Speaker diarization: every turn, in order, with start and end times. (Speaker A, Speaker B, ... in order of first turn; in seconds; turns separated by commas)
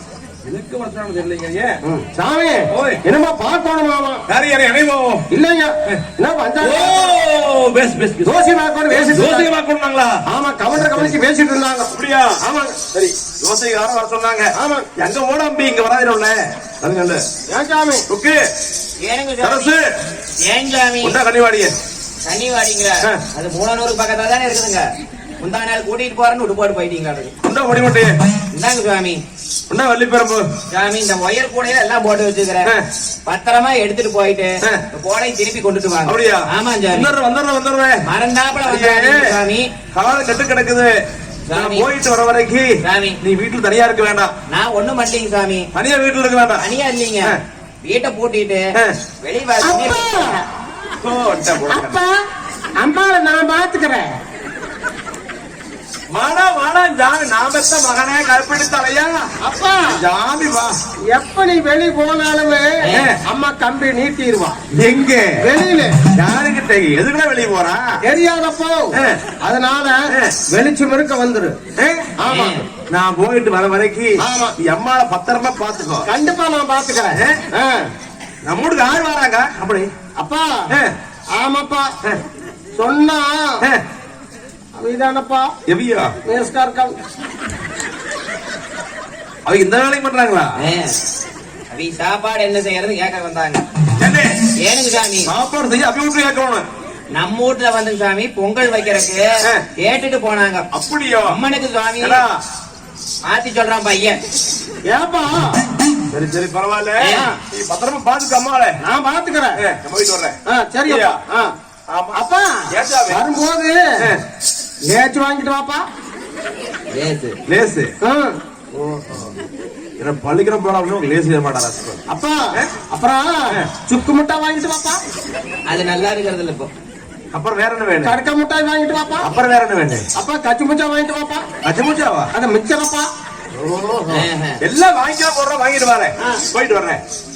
Speaker A: 0.5-1.8, Speaker B: 1.9-4.2, Speaker A: 2.7-3.0, Speaker A: 4.3-5.3, Speaker B: 5.3-7.1, Speaker A: 6.6-10.2, Speaker B: 8.2-9.5, Speaker B: 10.3-12.8, Speaker A: 10.8-11.1, Speaker A: 11.9-12.4, Speaker A: 12.9-17.2, Speaker B: 14.5-14.9, Speaker B: 17.5-18.1, Speaker A: 18.1-18.4, Speaker C: 19.0-19.7, Speaker A: 19.4-19.9, Speaker C: 20.4-21.2, Speaker A: 21.0-21.7, Speaker C: 22.2-24.9, Speaker C: 25.4-27.3, Speaker A: 27.4-28.2, Speaker C: 28.5-29.2, Speaker A: 29.7-30.5, Speaker C: 30.7-32.7, Speaker C: 33.3-37.1, Speaker A: 36.1-38.0, Speaker C: 38.0-39.7, Speaker A: 38.7-39.4, Speaker A: 39.9-41.0, Speaker C: 41.5-41.9, Speaker A: 41.5-42.7, Speaker C: 42.8-43.2, Speaker A: 43.2-44.3, Speaker C: 44.5-45.7, Speaker A: 45.8-46.6, Speaker C: 46.6-48.6, Speaker C: 49.2-50.4, Speaker B: 49.6-50.4, Speaker A: 51.0-52.0, Speaker B: 51.7-52.1, Speaker B: 52.8-54.1, Speaker A: 56.1-59.3, Speaker B: 59.4-59.9, Speaker A: 59.9-60.8, Speaker B: 61.1-64.6, Speaker C: 62.8-63.1, Speaker A: 62.9-63.2, Speaker A: 64.7-65.5, Speaker B: 65.4-66.0, Speaker A: 66.1-68.0, Speaker B: 68.0-71.6, Speaker A: 69.0-69.2, Speaker A: 70.1-70.4, Speaker A: 71.8-72.1, Speaker B: 72.2-72.7, Speaker C: 72.3-72.7, Speaker A: 72.9-76.1, Speaker B: 74.2-74.6, Speaker B: 76.0-77.8, Speaker A: 77.1-77.4, Speaker A: 78.5-79.9, Speaker B: 80.2-80.7, Speaker B: 81.4-81.9, Speaker B: 82.8-83.6, Speaker B: 84.8-85.5, Speaker A: 85.7-86.1, Speaker B: 86.2-87.0, Speaker A: 89.5-90.5, Speaker C: 90.6-91.0, Speaker C: 91.7-93.6, Speaker A: 94.0-94.3, Speaker C: 94.6-95.3, Speaker A: 95.3-96.7, Speaker C: 97.1-99.3, Speaker C: 99.8-100.7, Speaker A: 100.7-101.4, Speaker C: 101.3-102.2, Speaker A: 102.0-102.4, Speaker C: 103.2-104.2, Speaker B: 104.9-105.6, Speaker A: 106.1-108.8, Speaker C: 107.0-107.3, Speaker B: 107.1-107.3, Speaker B: 108.8-109.6, Speaker A: 109.6-111.2, Speaker B: 110.5-111.5, Speaker A: 111.9-113.2, Speaker B: 112.1-113.8, Speaker B: 114.9-115.8, Speaker C: 116.9-117.4, Speaker A: 117.5-117.9, Speaker B: 118.0-118.4, Speaker A: 118.8-119.4, Speaker A: 120.0-122.0, Speaker B: 122.1-125.0, Speaker C: 125.7-126.7, Speaker A: 127.3-128.2, Speaker B: 128.0-129.3, Speaker A: 129.2-130.1, Speaker B: 130.2-131.4, Speaker A: 131.6-132.3, Speaker B: 132.3-133.1, Speaker A: 133.6-137.0, Speaker C: 134.1-134.6